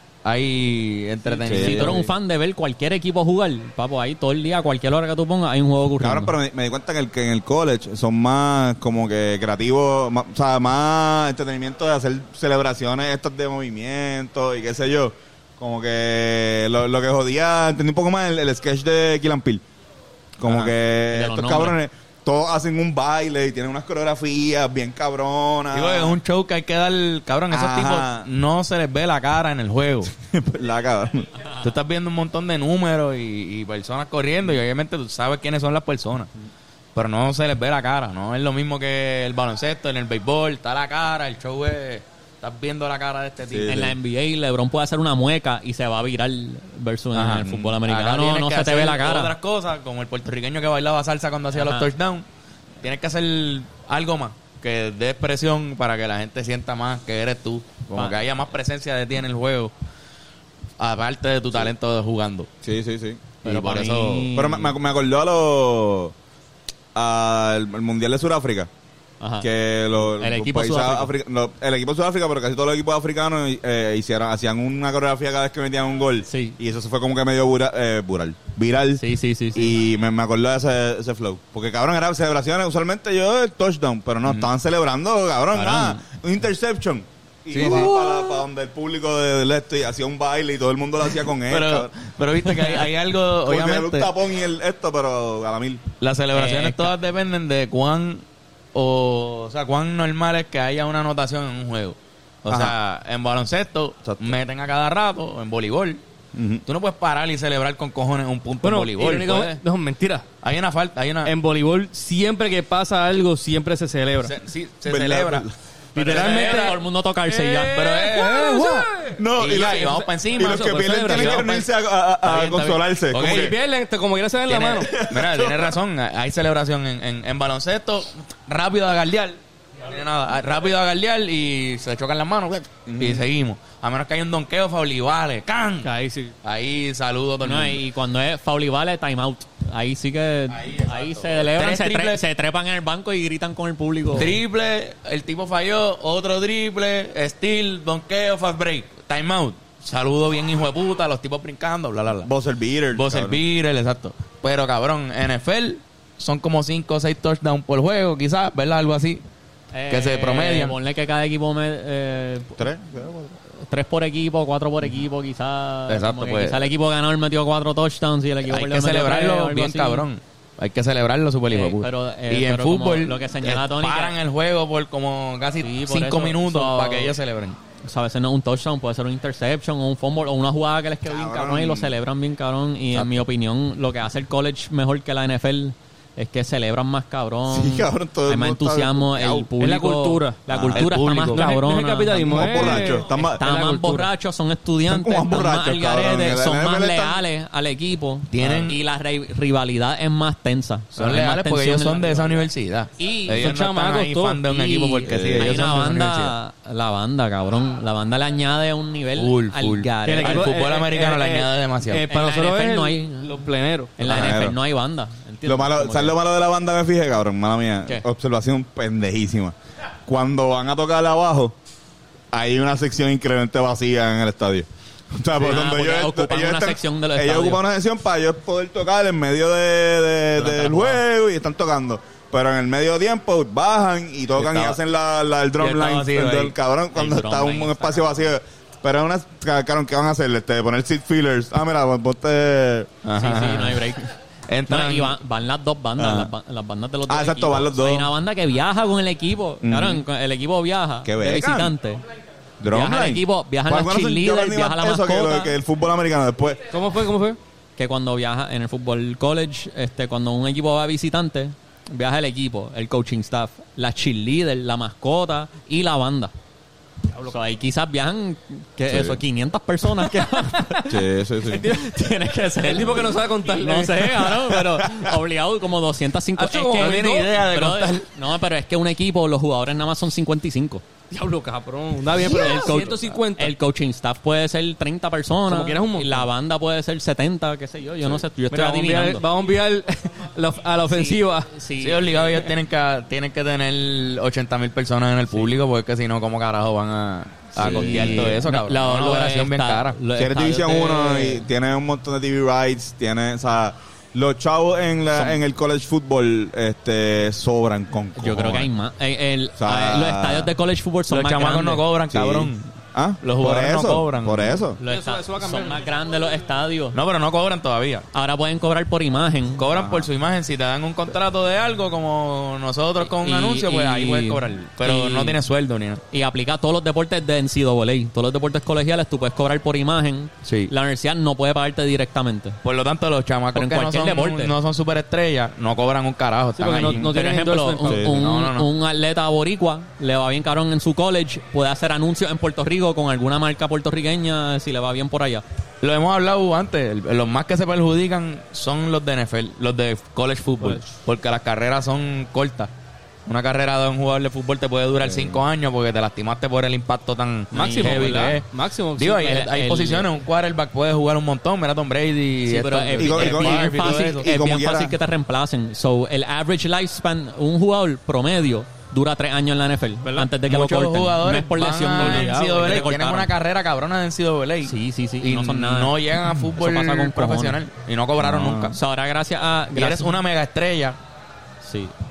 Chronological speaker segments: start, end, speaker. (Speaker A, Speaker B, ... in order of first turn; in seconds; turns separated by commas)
Speaker A: 0.2-2.1, Speaker B: 1.4-2.0, Speaker C: 1.4-6.3, Speaker B: 6.0-19.6, Speaker B: 20.4-26.2, Speaker C: 20.5-21.8, Speaker A: 25.7-30.1, Speaker B: 27.5-28.2, Speaker B: 30.1-31.3, Speaker A: 31.6-36.3, Speaker A: 36.9-43.9, Speaker B: 43.5-43.9, Speaker C: 43.6-49.3, Speaker A: 47.1-52.2, Speaker C: 51.5-51.9, Speaker A: 52.8-59.7, Speaker C: 57.9-58.2, Speaker A: 60.8-62.5, Speaker B: 62.6-63.2, Speaker A: 63.4-64.3, Speaker C: 63.4-64.7, Speaker B: 64.3-66.1, Speaker B: 66.9-68.7, Speaker C: 69.2-69.5, Speaker B: 69.4-91.9, Speaker C: 70.1-71.1, Speaker C: 76.3-76.6, Speaker C: 79.0-79.7, Speaker A: 84.2-84.5, Speaker C: 85.5-86.0, Speaker A: 87.5-88.4, Speaker A: 91.5-94.1, Speaker B: 93.4-95.8, Speaker A: 96.0-106.0, Speaker C: 96.3-96.9, Speaker B: 102.5-102.7, Speaker B: 104.0-104.3, Speaker B: 106.3-106.6, Speaker A: 106.7-109.6, Speaker D: 108.6-110.2, Speaker A: 110.4-111.3, Speaker D: 111.2-114.3, Speaker A: 114.2-116.8, Speaker B: 114.9-115.5, Speaker C: 115.9-117.8, Speaker D: 115.9-119.2, Speaker A: 117.7-121.7, Speaker B: 118.6-123.5, Speaker D: 120.2-121.6, Speaker A: 122.2-123.5, Speaker D: 123.1-124.9, Speaker A: 124.5-135.9, Speaker B: 124.9-125.7, Speaker B: 132.8-133.2, Speaker D: 135.8-136.3, Speaker A: 136.4-137.8, Speaker C: 137.4-144.4, Speaker A: 140.5-142.2, Speaker A: 144.1-152.3, Speaker B: 152.2-153.4, Speaker A: 152.9-159.2, Speaker C: 159.7-162.6, Speaker A: 159.9-160.8, Speaker B: 162.6-163.3, Speaker C: 163.6-170.1, Speaker A: 165.9-166.7, Speaker A: 168.4-177.6, Speaker C: 171.5-174.2, Speaker C: 175.6-177.1, Speaker C: 177.8-202.4, Speaker B: 181.1-181.9, Speaker B: 187.5-189.5, Speaker D: 189.6-190.4, Speaker B: 190.5-190.8, Speaker A: 190.6-191.5, Speaker D: 191.3-194.1, Speaker B: 192.2-193.4, Speaker B: 194.9-197.2, Speaker A: 198.3-198.8, Speaker B: 198.4-198.7, Speaker A: 200.9-206.3, Speaker C: 203.0-203.5, Speaker D: 203.3-204.9, Speaker C: 204.7-210.5, Speaker B: 205.1-205.7, Speaker A: 209.1-212.1, Speaker D: 210.0-213.9, Speaker C: 212.1-213.4, Speaker C: 214.0-216.2, Speaker B: 214.0-214.6, Speaker B: 215.4-219.5, Speaker B: 220.1-221.5, Speaker B: 222.3-242.9, Speaker C: 225.4-227.6, Speaker C: 230.3-231.0, Speaker A: 234.3-234.8, Speaker A: 235.6-236.5, Speaker C: 236.9-238.2, Speaker A: 243.0-244.0, Speaker C: 243.2-244.1, Speaker A: 244.5-245.2, Speaker C: 244.7-252.0, Speaker B: 246.0-246.3, Speaker B: 247.1-248.1, Speaker B: 249.6-250.0, Speaker B: 251.0-251.7, Speaker B: 252.6-256.6, Speaker C: 252.7-255.6, Speaker D: 256.7-257.4, Speaker C: 257.8-266.3, Speaker C: 267.2-271.1, Speaker B: 268.9-269.2, Speaker B: 270.9-271.6, Speaker D: 271.5-274.4, Speaker C: 271.6-280.8, Speaker D: 276.4-277.4, Speaker A: 276.8-278.1, Speaker D: 281.1-283.5, Speaker C: 282.1-289.2, Speaker D: 285.5-286.3, Speaker D: 288.5-291.5, Speaker C: 290.9-292.5, Speaker A: 291.8-300.0, Speaker B: 297.5-298.4, Speaker C: 297.6-301.4, Speaker B: 300.1-308.7, Speaker C: 308.2-311.8, Speaker B: 309.6-310.5, Speaker A: 311.1-312.7, Speaker B: 312.1-314.8, Speaker A: 313.2-314.6, Speaker C: 314.8-317.0, Speaker D: 314.9-315.9, Speaker A: 316.9-318.1, Speaker C: 318.1-319.6, Speaker A: 319.6-326.0, Speaker B: 319.7-320.1, Speaker C: 323.0-325.4, Speaker C: 326.1-332.6, Speaker A: 330.4-330.7, Speaker A: 332.6-337.1, Speaker C: 333.5-334.5, Speaker D: 336.6-338.1, Speaker C: 336.8-345.4, Speaker B: 337.9-338.2, Speaker A: 338.0-338.7, Speaker A: 345.8-352.7, Speaker A: 353.2-358.4, Speaker B: 355.1-355.4, Speaker D: 357.5-359.4, Speaker C: 357.5-358.4, Speaker A: 358.9-364.3, Speaker C: 359.2-360.1, Speaker C: 362.4-373.3, Speaker B: 363.0-364.9, Speaker D: 370.0-370.3, Speaker A: 370.4-378.8, Speaker D: 371.8-373.0, Speaker C: 374.6-377.6, Speaker B: 378.2-378.7, Speaker C: 378.7-380.2, Speaker A: 379.7-381.0, Speaker C: 381.6-381.9